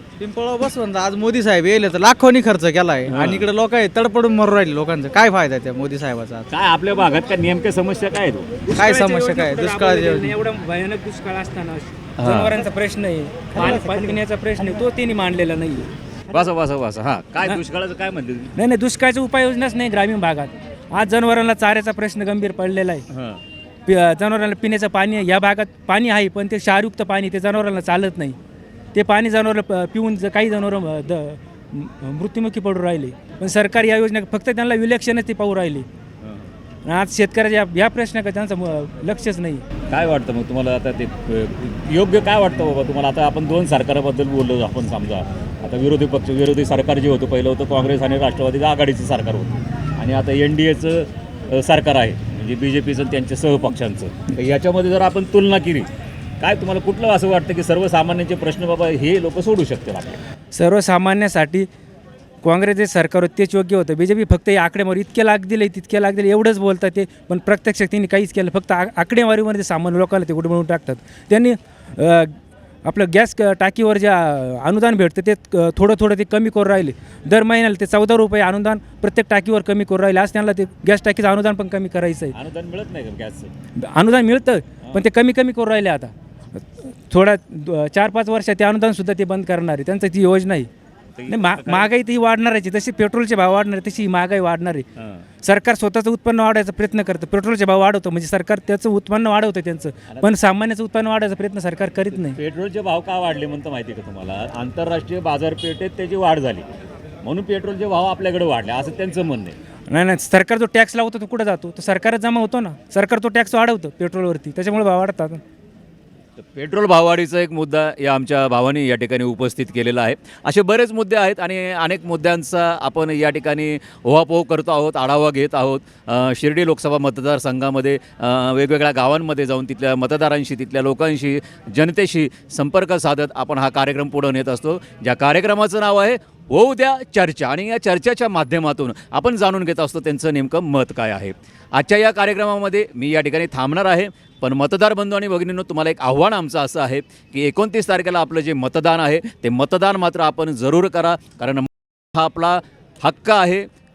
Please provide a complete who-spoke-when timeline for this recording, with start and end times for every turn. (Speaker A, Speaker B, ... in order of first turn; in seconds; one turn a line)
Speaker A: 0.2-6.5
Speaker B: 3.1-3.5
Speaker B: 6.5-8.6
Speaker A: 8.7-10.4
Speaker C: 8.7-15.9
Speaker B: 12.2-12.5
Speaker A: 13.5-14.2
Speaker B: 16.3-18.5
Speaker C: 18.6-23.0
Speaker B: 23.1-23.4
Speaker C: 23.9-28.4
Speaker C: 28.9-35.9
Speaker B: 36.2-36.5
Speaker C: 36.9-39.6
Speaker B: 39.9-55.9
Speaker B: 56.4-60.2
Speaker C: 60.5-61.7
Speaker C: 62.4-82.3
Speaker B: 82.3-83.5
Speaker C: 83.8-90.7
Speaker B: 91.2-91.9
Speaker C: 91.3-94.8
Speaker B: 95.0-95.2
Speaker C: 95.4-102.4
Speaker B: 100.1-100.3
Speaker B: 102.1-106.7
Speaker B: 107.2-109.6
Speaker C: 109.9-115.4
Speaker B: 116.4-153.7